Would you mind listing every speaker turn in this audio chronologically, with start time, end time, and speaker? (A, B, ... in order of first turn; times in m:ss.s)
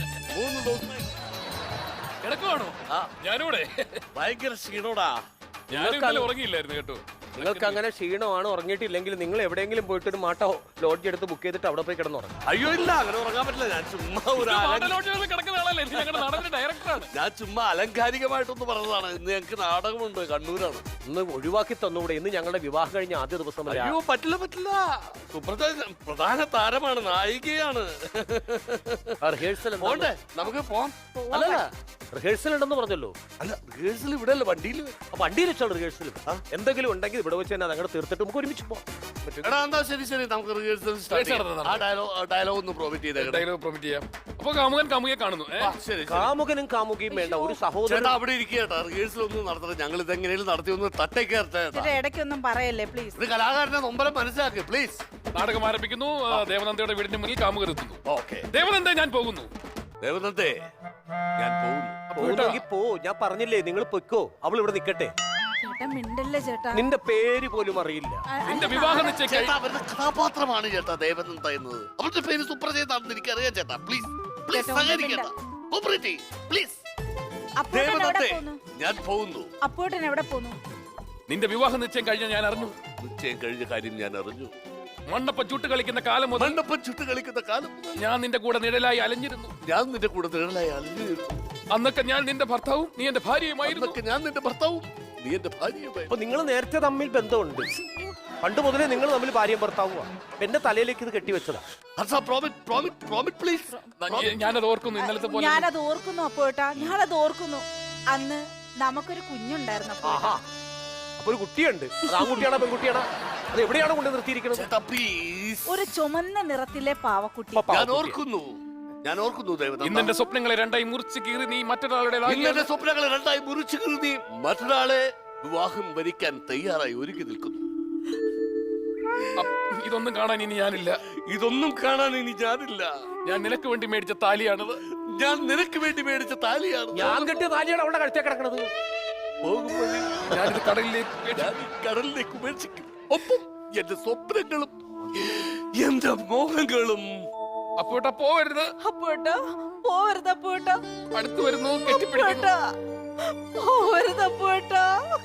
0:00.3-0:01.1 A
0:02.2-0:04.0 B
0:04.1-0:05.2 A
0:05.7-0:07.8 B
0:05.7-0:06.3 C
0:07.4-0:12.3 C
0:12.5-0:15.0 A
0:14.4-0:17.1 B
0:15.9-0:16.4 A
0:17.1-0:20.8 A
0:21.0-0:24.0 C
0:23.6-0:31.6 A
0:29.2-0:30.1 C
0:31.1-0:31.6 D
0:31.3-0:33.2 C
0:33.4-0:35.0 A
0:35.1-0:39.6 C
0:39.4-0:43.4 A
0:41.1-0:41.8 B
0:43.2-0:45.8 B
0:45.6-0:46.3 A
0:46.1-0:48.2 C
0:47.1-0:47.6 D
0:47.8-0:51.9 A
0:51.7-0:53.2 D
0:53.2-0:55.0 A
0:55.3-0:59.5 B
0:58.1-0:58.5 A
1:00.0-1:00.6 A
1:01.4-1:02.0 A
1:02.1-1:05.1 C
1:02.2-1:02.6 B
1:05.6-1:06.8 D
1:06.7-1:08.2 C
1:08.3-1:09.1 D
1:08.5-1:09.6 B
1:09.2-1:16.8 A
1:14.5-1:15.3 D
1:17.6-1:18.6 D
1:17.7-1:19.5 A
1:19.6-1:20.6 D
1:21.3-1:22.8 B
1:23.0-1:24.5 A
1:25.1-1:26.6 B
1:26.4-1:28.0 A
1:28.0-1:29.5 B
1:29.6-1:31.4 A
1:31.7-1:34.0 B
1:33.6-1:36.1 A
1:36.1-1:37.7 C
1:38.4-1:41.6 C
1:42.0-1:44.2 A
1:44.0-1:45.7 B
1:45.0-1:50.4 D
1:50.0-1:50.4 C
1:51.2-1:54.7 C
1:52.1-1:52.5 D
1:54.5-1:55.8 A
1:55.7-1:57.7 D
1:57.5-1:58.2 C
1:57.7-2:00.1 A
1:59.8-2:02.7 B
2:02.2-2:07.6 A
2:09.4-2:11.0 B
2:11.3-2:12.9 A
2:13.2-2:14.8 B
2:15.1-2:17.3 A
2:16.9-2:18.7 C
2:19.4-2:20.6 A
2:20.3-2:21.5 B
2:21.3-2:27.3 A
2:27.8-2:28.7 B
2:28.8-2:30.8 D
2:31.1-2:32.5 B
2:31.8-2:32.6 D
2:33.2-2:34.9 D